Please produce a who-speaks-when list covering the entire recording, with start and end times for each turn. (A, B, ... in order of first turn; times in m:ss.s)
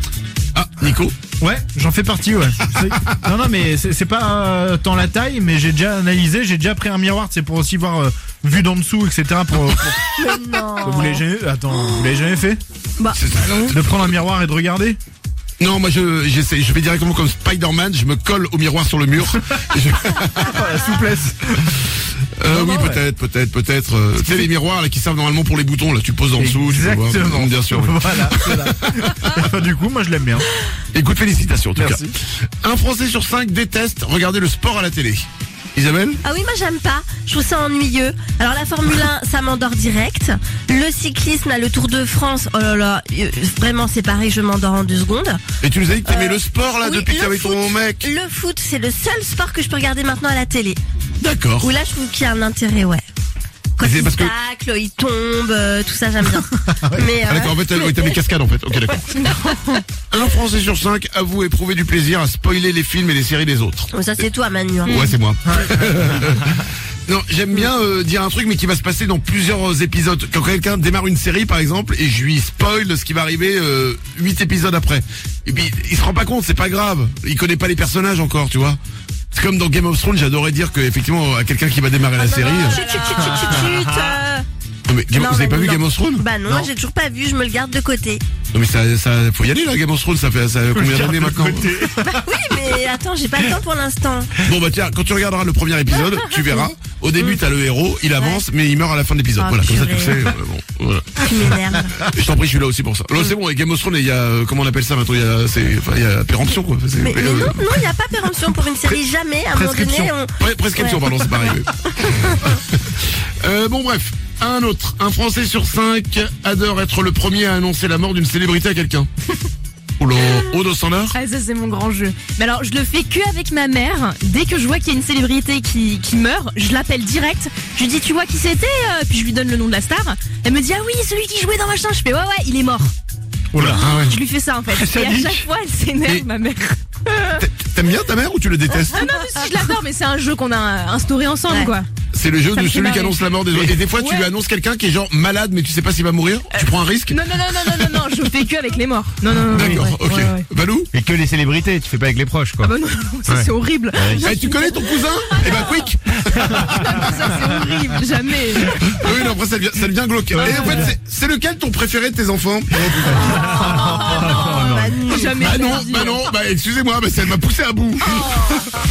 0:00.5-0:01.2 A
0:01.4-0:10.2 B
0:10.2-0:11.2 C
0:10.8-0:12.6 B
0:13.0-0:13.7 C
0:13.1-0:14.1 A
0:13.7-0:15.0 B
0:15.6-0:20.6 A
0:20.4-0:21.6 B
0:22.4-0:29.1 A
0:22.5-0:23.0 B
0:26.4-0:30.5 B
0:30.9-0:32.1 A
0:31.8-0:32.1 B
0:32.6-0:36.2 A
0:36.2-0:45.4 C
0:45.6-0:48.1 A
0:46.1-0:50.8 C
0:51.2-0:51.7 A
0:51.6-0:53.0 C
0:53.8-0:58.2 C
0:53.8-0:54.3 A
0:57.2-0:59.2 A
0:59.2-0:59.8 D
1:00.1-1:03.9 A
1:03.9-1:05.1 C
1:04.8-1:06.5 A
1:04.8-1:05.1 D
1:07.1-1:18.8 A
1:19.3-1:22.8 A
1:22.2-1:24.4 C
1:23.0-1:24.2 B
1:24.9-1:26.2 A
1:25.1-1:28.2 C
1:28.5-1:31.8 A
1:30.7-1:32.7 B
1:32.0-1:34.3 C
1:34.4-1:41.3 A
1:36.4-1:36.7 C
1:38.2-1:38.4 C
1:39.4-1:40.2 C
1:41.2-1:42.0 C
1:42.0-1:47.7 A
1:47.0-1:51.1 C
1:48.8-1:50.1 B
1:50.4-1:59.1 A
2:00.0-2:01.2 A
2:00.2-2:00.4 D
2:01.1-2:12.9 D
2:13.5-2:13.9 B
2:13.6-2:14.2 A
2:13.6-2:17.4 D
2:14.7-2:15.4 A
2:17.3-2:19.0 A
2:18.8-2:21.9 D
2:22.1-2:27.9 A
2:22.5-2:24.3 D
2:26.5-2:30.4 D
2:29.5-2:30.9 A
2:31.1-2:32.7 E
2:32.6-2:39.3 D
2:33.3-2:34.3 E
2:34.1-2:37.2 A
2:36.4-2:37.4 B
2:38.9-2:43.5 A
2:40.3-2:40.9 B
2:40.4-2:40.8 D
2:42.8-2:45.0 B
2:43.4-2:45.7 C
2:43.5-2:46.2 D
2:45.4-2:48.4 A
2:48.0-2:48.6 D